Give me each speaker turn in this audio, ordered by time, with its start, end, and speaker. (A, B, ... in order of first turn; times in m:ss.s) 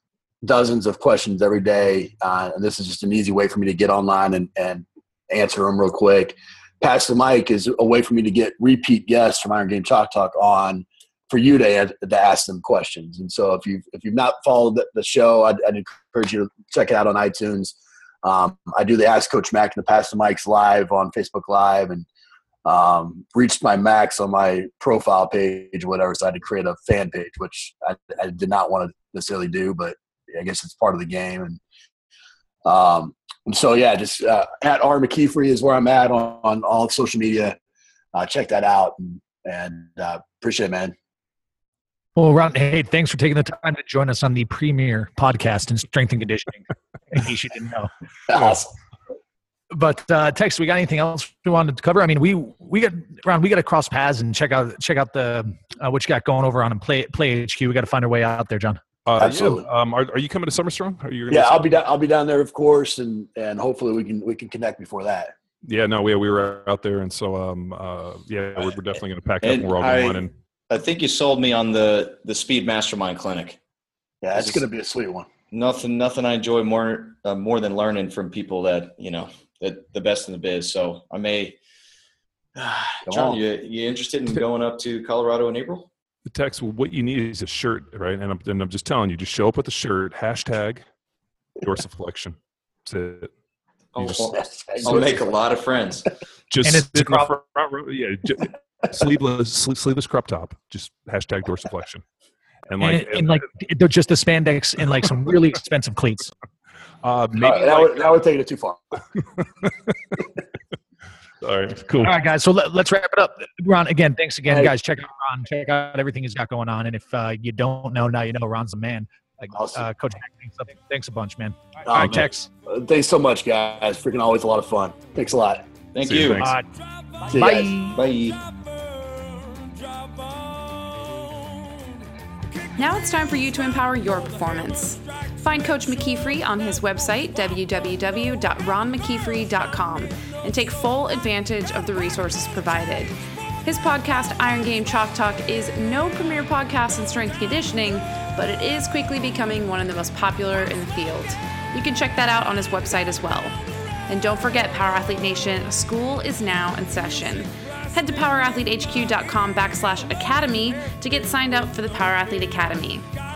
0:00.4-0:22.1 A
0:22.6-0:31.6 A
0:32.6-0:37.6 A
0:38.1-0:40.9 A
0:42.2-0:47.9 B
0:48.3-0:48.7 A
0:49.7-0:58.8 B
0:59.0-1:01.8 C
0:59.2-0:59.6 A
1:01.3-1:05.3 A
1:05.6-1:10.3 C
1:09.4-1:13.6 D
1:14.2-1:15.3 A
1:14.4-1:14.6 D
1:15.5-1:21.6 D
1:22.6-1:25.9 D
1:23.1-1:23.4 A
1:26.2-1:30.8 C
1:31.6-1:33.3 C
1:34.0-1:35.0 C
1:34.0-1:35.2 A
1:34.8-1:36.1 D
1:36.5-1:42.0 C
1:36.6-1:37.3 B
1:42.7-1:43.4 C
1:42.8-1:46.3 B
1:47.0-1:48.2 C
1:47.4-1:49.0 A
1:49.2-1:50.2 C
1:51.4-1:52.2 C
1:52.0-2:02.5 B
1:59.5-1:59.8 A
2:01.8-2:05.7 A
2:05.9-2:06.4 D
2:06.0-2:06.6 C
2:06.4-2:06.6 B
2:07.3-2:07.7 A
2:07.3-2:08.0 B
2:07.8-2:08.4 D
2:12.8-2:33.5 E
2:34.1-2:43.1 E